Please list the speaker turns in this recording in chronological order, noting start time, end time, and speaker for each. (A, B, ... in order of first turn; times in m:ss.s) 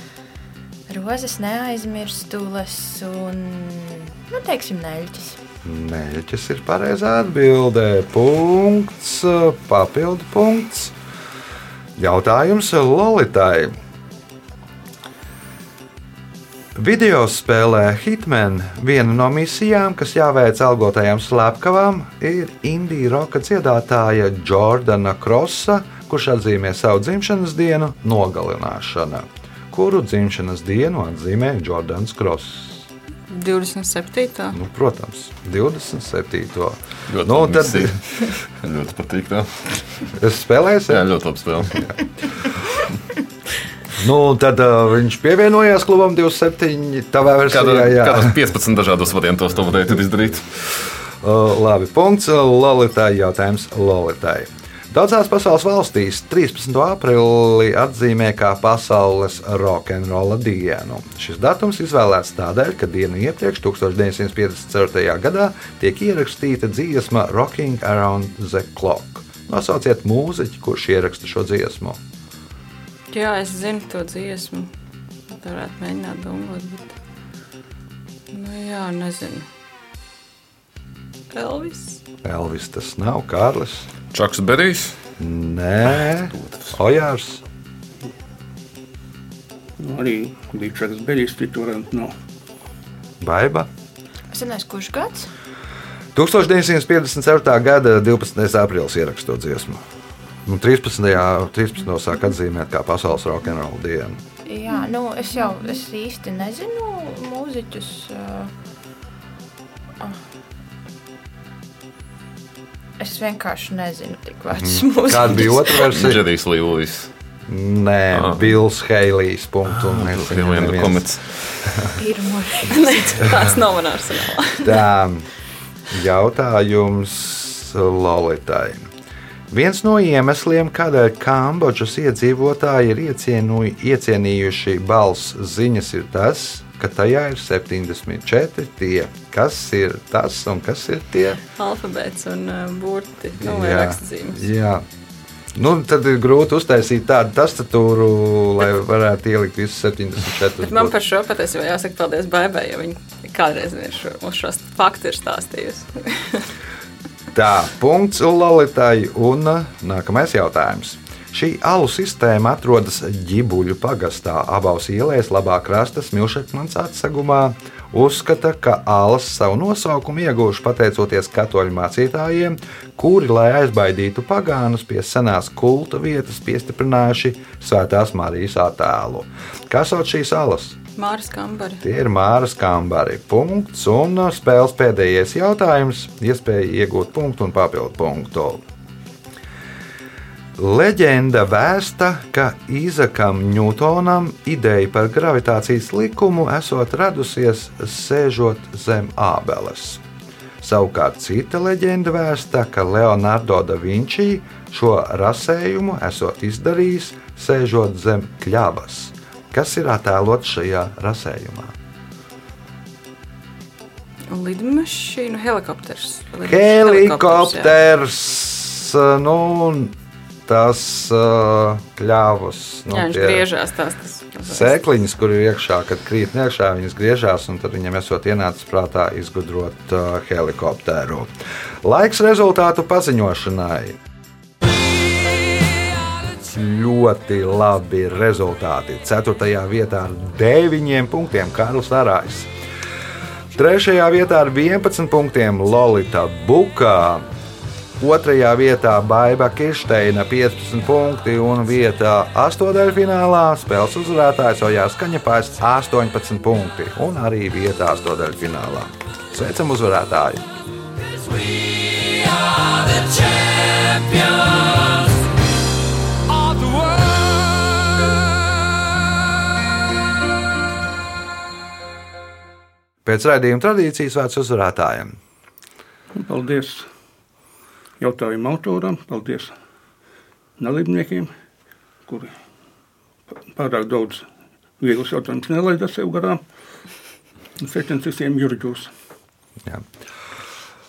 0:00.9-0:05.4 A
0:05.6-0:10.9 B
0:12.0-0:13.8 B
0:16.7-0:32.8 B
0:33.3-0:34.6 C
0:34.5-0:38.0 B
0:37.1-0:39.8 D
0:40.2-0:41.1 B
0:40.9-0:41.9 D
0:44.0-0:48.4 B
0:47.5-0:50.5 D
0:51.2-1:12.0 B
1:13.1-1:14.7 C
1:15.3-1:16.9 C
1:18.3-1:19.5 C
1:21.3-1:22.0 C
1:22.2-1:23.9 B
1:24.1-1:25.0 D
1:25.2-1:27.4 B
1:26.3-1:26.7 D
1:29.8-1:32.1 E
1:33.2-1:33.7 B
1:34.3-1:35.3 A
1:36.1-1:39.8 B
1:40.4-1:44.2 B
1:44.4-1:48.5 A
1:53.0-1:55.9 A
1:54.6-1:56.2 B
1:55.4-1:57.1 D
1:57.5-2:01.1 B
1:58.1-1:58.5 D
1:59.7-2:01.8 D
2:02.0-2:03.4 A
2:02.6-2:04.8 C
2:04.6-2:05.3 B
2:05.9-2:08.9 B
2:09.5-2:21.4 B
2:21.6-2:24.4 C
2:23.4-2:24.8 B
2:25.5-2:31.0 B
2:30.6-2:36.5 C
2:37.3-3:00.8 B
3:01.0-3:01.8 C
3:01.8-3:08.6 B
3:10.6-3:20.0 B
3:20.6-3:31.7 B
3:34.3-3:37.7 C
3:36.4-3:39.9 B
3:40.4-3:43.4 B
3:42.9-3:44.7 C
3:44.4-3:51.3 B
3:51.8-3:54.0 B
3:56.3-4:02.5 B
4:03.5-4:07.2 B
4:08.0-4:20.5 B
4:33.0-4:35.2 B
4:36.1-4:36.9 E
4:38.0-4:39.5 E
4:40.6-4:41.3 E
4:42.0-4:42.3 E
4:43.4-4:44.2 E
4:44.8-4:46.4 E
4:47.6-4:48.9 E